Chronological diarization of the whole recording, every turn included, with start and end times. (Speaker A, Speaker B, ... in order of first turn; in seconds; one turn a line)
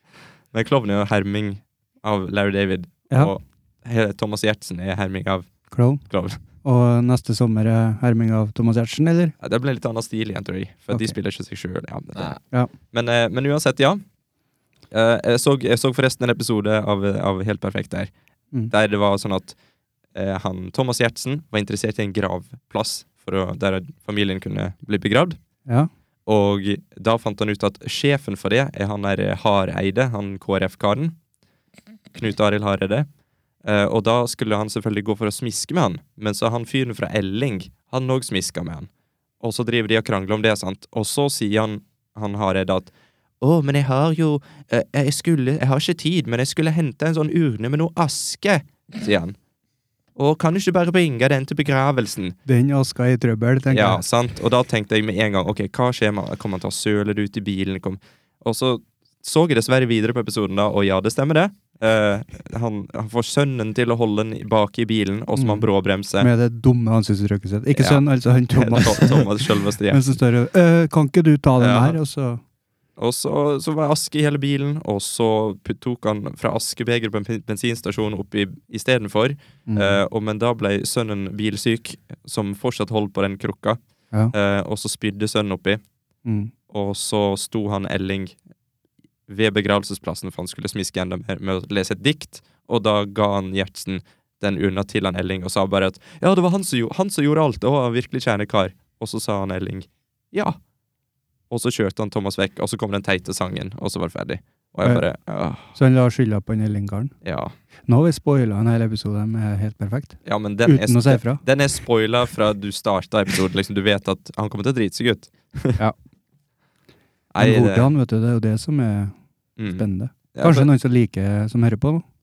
Speaker A: 0.5-5.5
Speaker B: 5.7-6.0
Speaker A: 6.1-6.4
Speaker B: 6.6-9.3
Speaker A: 9.4-12.4
Speaker B: 10.9-11.2
Speaker A: 12.9-14.0
Speaker A: 14.9-18.1
Speaker A: 18.7-19.6
Speaker A: 20.1-25.4
Speaker A: 26.3-31.2
Speaker A: 32.1-33.1
Speaker A: 33.6-38.9
Speaker A: 39.4-49.4
Speaker A: 50.2-52.4
Speaker B: 52.5-54.0
Speaker A: 53.7-66.3
Speaker B: 65.3-65.7
Speaker B: 66.2-72.4
Speaker A: 67.8-70.0
Speaker A: 71.6-72.0
Speaker A: 73.0-83.8
Speaker B: 79.7-80.0
Speaker A: 84.3-85.8
Speaker B: 86.3-86.5
Speaker A: 86.7-88.4
Speaker A: 89.3-100.6
Speaker A: 101.5-105.7
Speaker B: 105.7-107.1
Speaker A: 107.2-107.5
Speaker B: 107.9-111.4
Speaker A: 110.2-115.8
Speaker A: 117.3-117.9
Speaker B: 117.4-119.1
Speaker A: 119.6-119.8
Speaker B: 119.7-122.0
Speaker A: 120.3-120.7